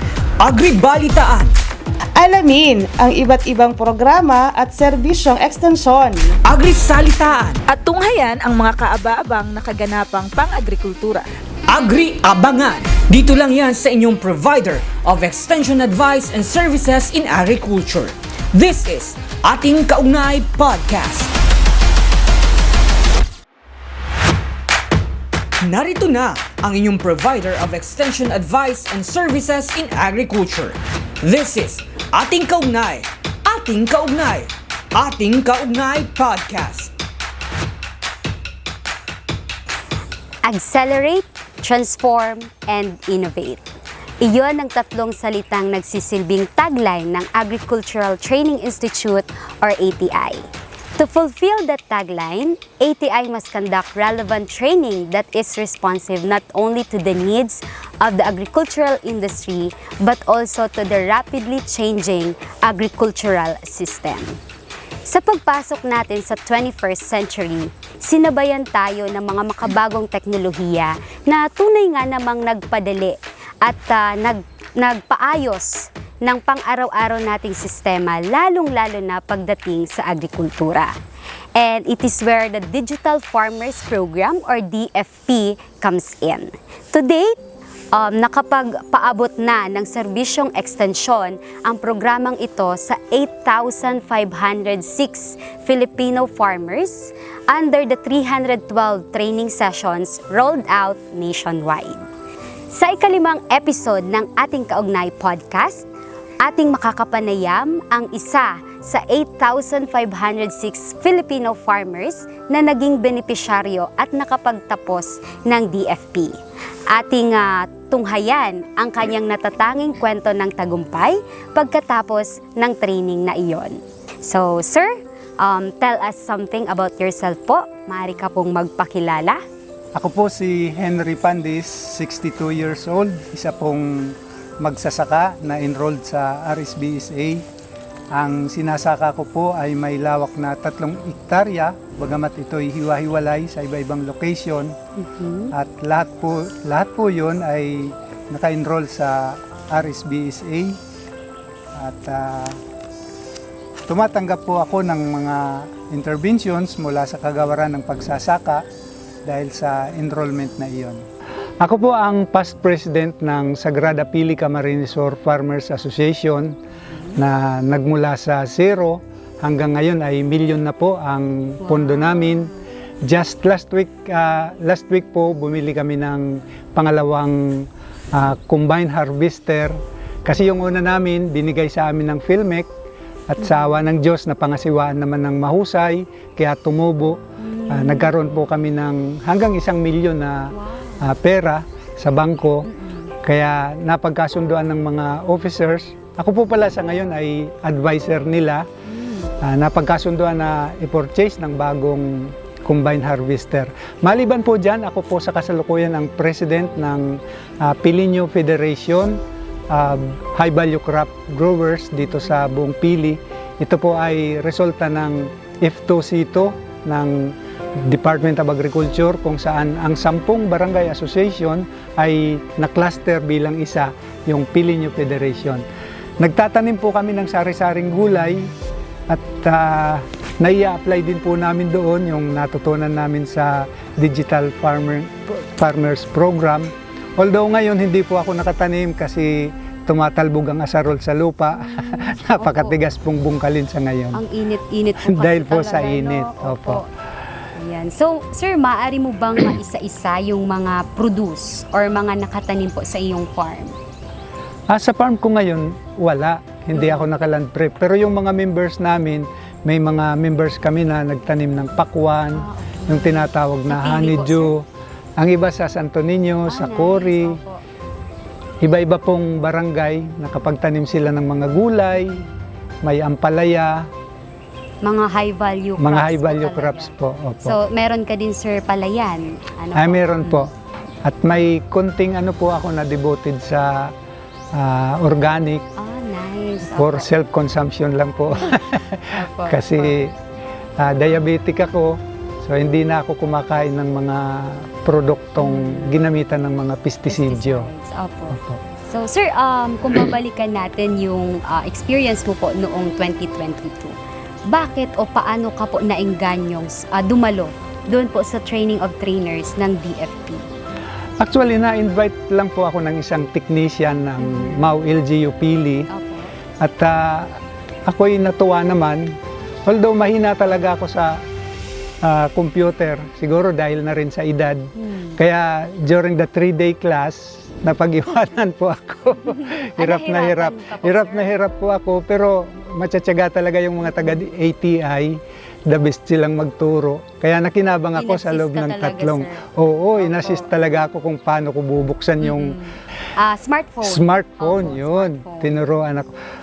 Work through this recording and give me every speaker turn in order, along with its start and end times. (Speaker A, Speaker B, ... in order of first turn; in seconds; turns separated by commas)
Speaker A: 0.4-1.5, Speaker B: 2.2-6.4, Speaker A: 6.5-7.6, Speaker C: 7.7-11.2, Speaker A: 11.7-21.3, Speaker A: 25.6-36.9, Speaker D: 40.5-43.6, Speaker D: 44.2-50.5, Speaker D: 51.0-64.4, Speaker D: 65.1-80.9, Speaker D: 81.6-87.3, Speaker D: 87.9-102.1, Speaker D: 102.7-105.9, Speaker D: 106.4-116.4, Speaker D: 116.9-129.4, Speaker E: 130.0-137.4, Speaker E: 138.1-144.8, Speaker D: 145.0-145.5, Speaker E: 145.5-150.8, Speaker E: 151.8-152.6, Speaker E: 153.9-158.7, Speaker E: 159.2-161.0, Speaker E: 161.6-166.6, Speaker D: 166.9-167.2, Speaker E: 167.2-172.5, Speaker D: 171.6-172.6, Speaker E: 173.0-182.7, Speaker E: 183.3-192.7, Speaker D: 183.4-183.8, Speaker D: 187.4-188.1, Speaker D: 190.5-191.1, Speaker D: 192.7-193.1, Speaker E: 193.2-198.7, Speaker D: 198.9-199.3, Speaker E: 199.4-209.2, Speaker E: 209.7-225.6, Speaker E: 226.2-228.5, Speaker E: 229.1-244.2, Speaker D: 241.6-242.8, Speaker D: 244.1-246.8, Speaker E: 245.0-246.8, Speaker D: 247.6-253.8, Speaker E: 254.7-264.6, Speaker D: 256.7-257.1, Speaker D: 262.4-264.5, Speaker E: 265.2-267.4, Speaker D: 266.5-267.6, Speaker E: 268.6-272.2, Speaker E: 272.8-273.9, Speaker D: 274.8-276.9, Speaker E: 275.8-277.6, Speaker D: 277.4-280.5, Speaker E: 279.8-280.5, Speaker E: 281.1-283.9, Speaker E: 284.5-285.6, Speaker D: 285.8-287.1, Speaker E: 286.7-290.1, Speaker D: 288.3-288.6, Speaker D: 289.1-290.0, Speaker E: 290.8-297.7, Speaker D: 295.4-295.9, Speaker D: 297.1-303.9, Speaker E: 298.3-298.6, Speaker D: 304.5-310.4, Speaker E: 311.2-315.9, Speaker D: 314.2-314.7, Speaker D: 315.9-316.3, Speaker E: 316.6-321.2, Speaker E: 322.0-342.6, Speaker D: 324.8-325.2, Speaker D: 329.2-331.4, Speaker D: 333.9-334.2, Speaker D: 338.0-339.4, Speaker D: 340.0-340.5, Speaker D: 342.2-345.5, Speaker E: 343.8-346.1